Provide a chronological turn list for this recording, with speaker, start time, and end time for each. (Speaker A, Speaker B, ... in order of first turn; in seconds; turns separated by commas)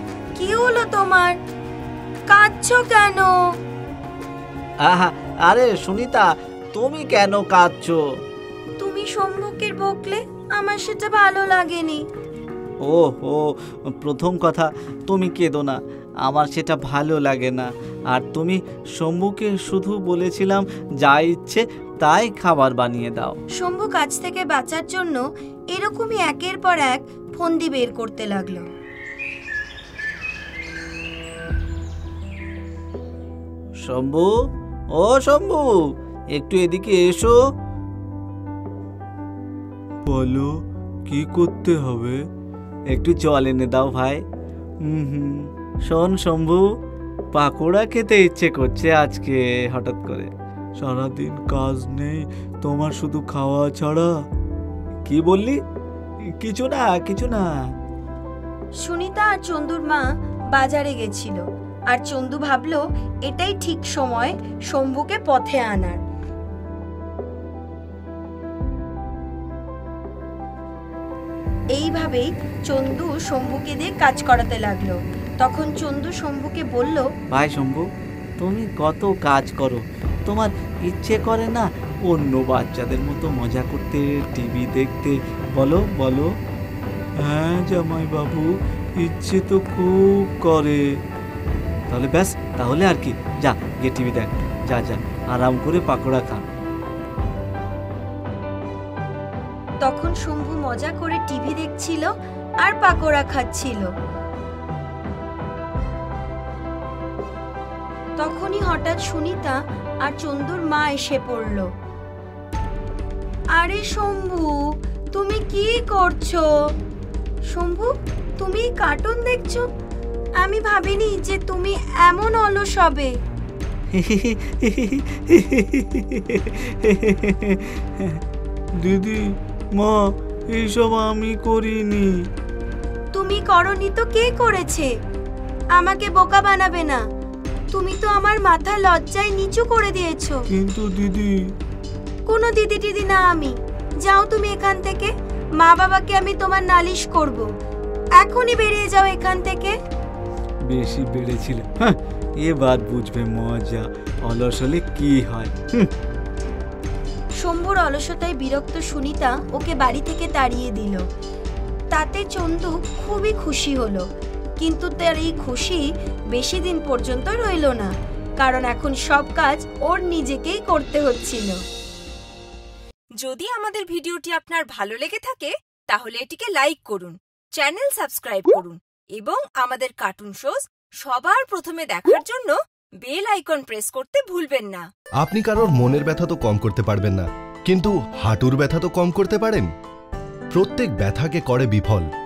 Speaker A: 0.3-1.4, Speaker A: 2.3-3.3, Speaker B: 4.8-8.0, Speaker A: 8.8-12.0, Speaker B: 12.8-23.4, Speaker A: 23.6-28.7, Speaker B: 33.8-34.3, Speaker B: 35.0-35.7, Speaker B: 36.4-37.4, Speaker B: 40.1-40.5, Speaker B: 41.1-42.2, Speaker B: 42.9-44.2, Speaker B: 44.9-46.6, Speaker B: 47.3-54.1, Speaker B: 55.1-55.6, Speaker B: 56.4-57.5, Speaker A: 58.8-66.0, Speaker A: 71.7-77.1, Speaker B: 77.3-77.9, Speaker B: 78.4-86.3, Speaker B: 87.2-90.8, Speaker B: 91.9-96.4, Speaker A: 99.8-102.1, Speaker A: 102.6-103.9, Speaker A: 108.2-111.7, Speaker A: 113.6-116.5, Speaker A: 117.5-119.7, Speaker A: 120.4-123.1, Speaker B: 123.9-128.2, Speaker B: 128.8-129.2, Speaker B: 130.5-132.1, Speaker A: 133.1-134.9, Speaker A: 135.8-137.0, Speaker A: 137.7-140.4, Speaker B: 140.5-141.3, Speaker A: 142.3-147.5, Speaker A: 148.2-149.7, Speaker B: 150.7-155.9, Speaker A: 157.4-161.0, Speaker A: 161.9-164.0, Speaker A: 164.6-171.6, Speaker C: 173.2-184.9, Speaker D: 185.2-189.7, Speaker D: 190.5-192.1